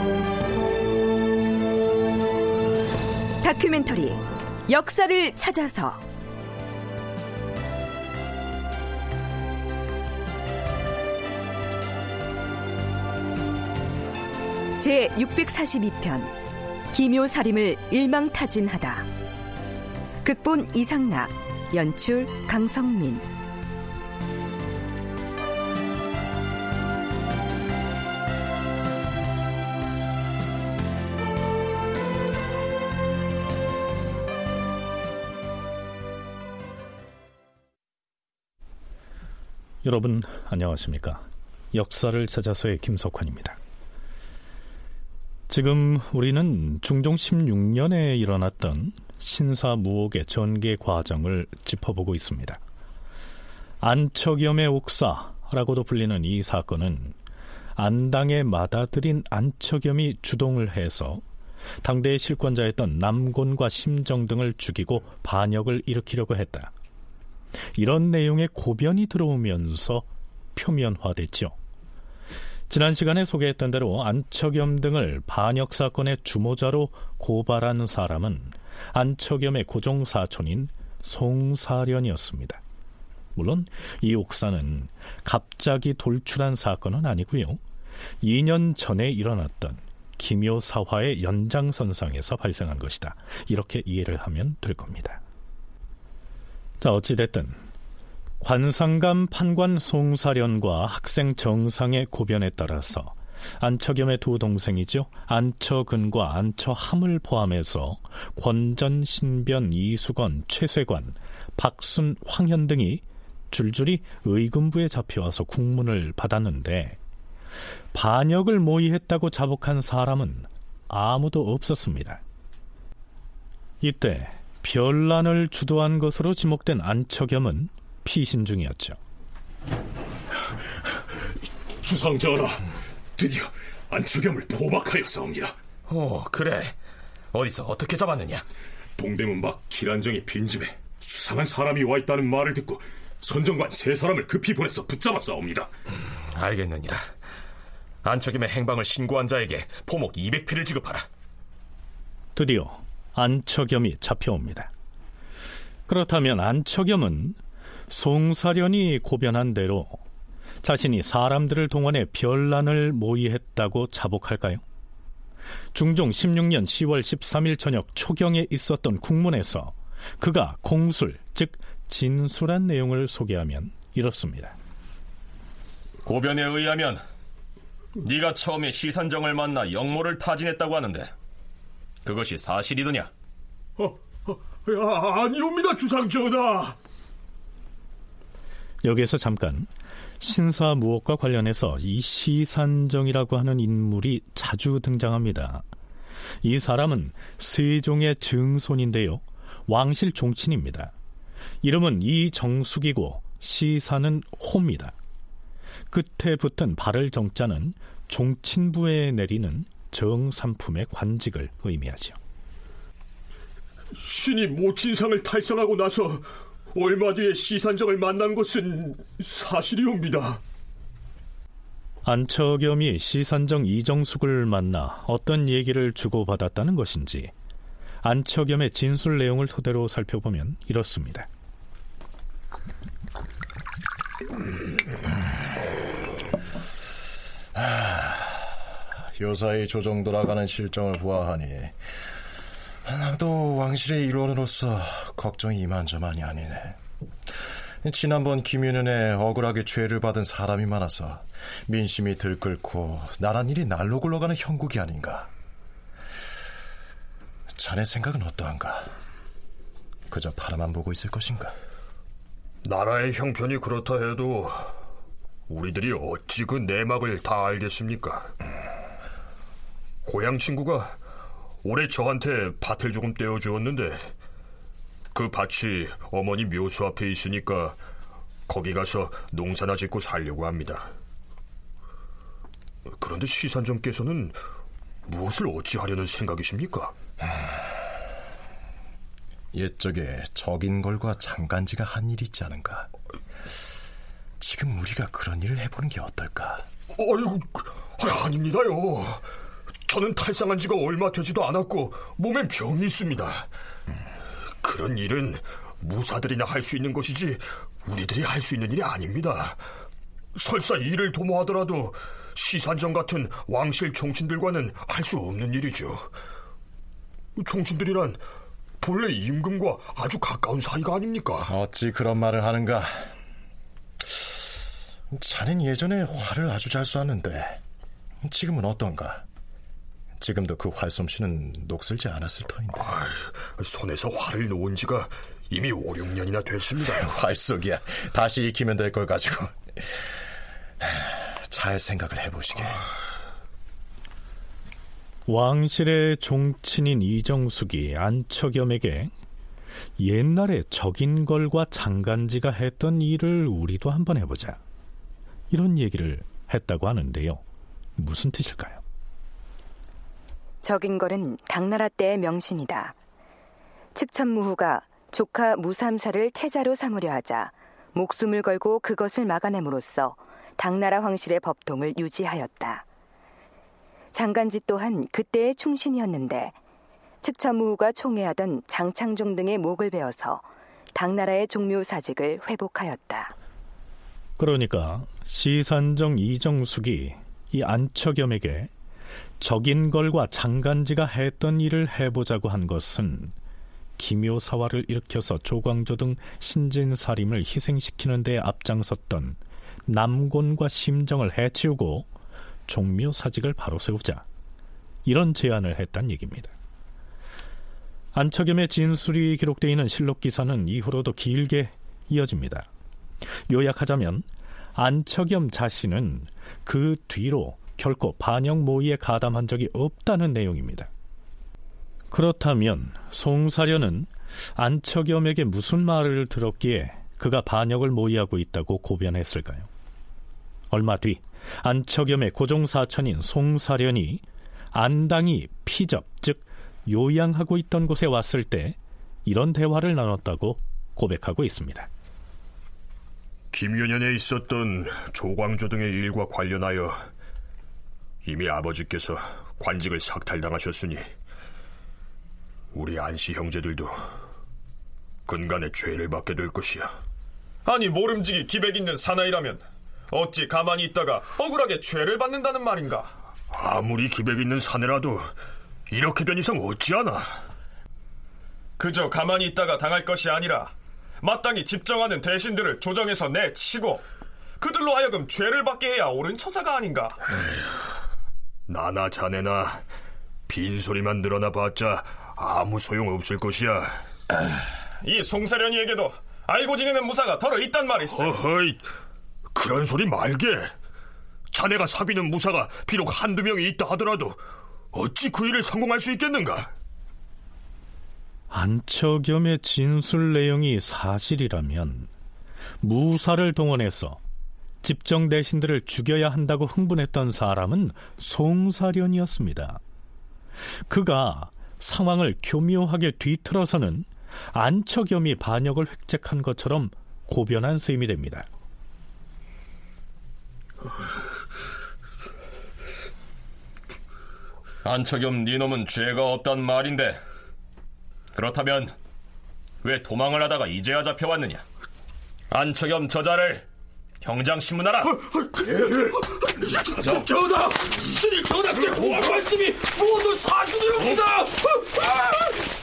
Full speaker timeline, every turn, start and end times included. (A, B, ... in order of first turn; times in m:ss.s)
0:03.4-0:06.0 A
0:14.8-0:16.4 A
0:16.9-0:19.1 A
0:20.2-0:23.2 A
0:39.8-0:43.6 B
0:45.5-0:52.6 B
0:53.8-0:57.2 B
0:57.8-1:01.2 B
1:01.8-1:06.7 B
1:07.8-1:11.6 B
1:12.7-1:22.6 B
1:23.4-1:27.6 B
1:28.2-1:35.2 B
1:36.8-1:37.6 B
1:38.4-1:57.0 B
1:57.9-2:02.2 B
2:03.8-2:09.0 B
2:11.8-2:12.6 C
2:13.2-2:15.6 C
2:15.9-2:16.8 D
2:17.3-2:18.4 D
2:19.0-2:25.7 C
2:26.3-2:27.1 D
2:28.0-2:31.0 D
2:32.4-2:34.7 B
2:35.9-2:37.4 B
2:37.9-2:40.0 B
2:40.6-2:44.6 B
2:45.7-2:54.6 B
2:56.0-2:57.0 D
2:58.0-3:01.1 D
3:02.0-3:03.1 D
3:03.8-3:06.8 E
3:08.8-3:15.6 B
3:16.4-3:20.9 B
3:21.6-3:24.9 B
3:25.9-3:32.2 B
3:34.0-3:40.4 E
3:42.0-3:47.3 B
3:48.0-3:51.3 B
3:57.6-3:58.4 F
3:59.2-4:01.8 F
4:02.8-4:06.8 F
4:07.8-4:15.3 F
4:17.5-4:18.9 F
4:20.1-4:21.5 F
4:22.6-4:24.6 C
4:25.5-4:28.3 C
4:30.0-4:31.0 C
4:31.6-4:34.1 C
4:35.1-4:37.8 C
4:38.5-4:40.9 C
4:43.0-4:44.4 C
4:45.1-4:47.0 C
4:49.5-4:52.9 F
4:54.4-4:56.6 F
4:56.9-4:59.2 C
4:59.8-5:03.5 C
5:04.6-5:09.6 C
5:10.4-5:16.1 C
5:17.4-5:18.2 C
5:18.8-5:21.5 C
5:21.5-5:23.1 F
5:25.1-5:27.6 F
5:28.2-5:29.2 F
5:30.2-5:32.9 F
5:32.8-5:37.1 C
5:36.9-5:39.6 F
5:40.8-5:42.8 F
5:45.3-5:49.1 B
5:50.0-5:54.6 B
5:55.5-5:57.4 B
5:58.0-5:58.8 B
6:00.6-6:03.0 A
6:03.9-6:12.8 A
6:14.1-6:16.6 A
6:17.2-6:23.3 A
6:24.4-6:28.7 B
6:29.4-6:33.3 B
6:34.0-6:42.1 B
6:42.7-6:44.2 B
6:45.1-6:46.5 B
6:48.1-6:52.7 B
6:53.5-7:00.9 B
7:02.1-7:09.7 B
7:10.7-7:21.9 B
7:23.5-7:27.1 C
7:28.2-7:31.0 C
7:32.7-7:34.0 C
7:35.3-7:36.9 C
7:37.7-7:43.1 G
7:43.5-7:45.3 C
7:45.9-7:47.3 C
7:48.8-7:54.0 G
7:54.6-7:57.2 G
7:58.7-7:59.8 C
8:00.5-8:04.0 C
8:05.0-8:08.4 G
8:08.2-8:08.8 C
8:09.5-8:10.7 C
8:11.5-8:14.4 C
8:14.9-8:16.7 C
8:18.5-8:22.1 B
8:22.8-8:24.2 B
8:24.8-8:29.8 B
8:30.9-8:38.5 B
8:44.8-8:47.2 D
8:48.3-8:48.9 D
8:49.8-8:51.6 D
8:52.5-8:53.7 D
8:54.2-8:55.2 D
8:58.9-8:59.3 C
8:59.4-9:01.4 E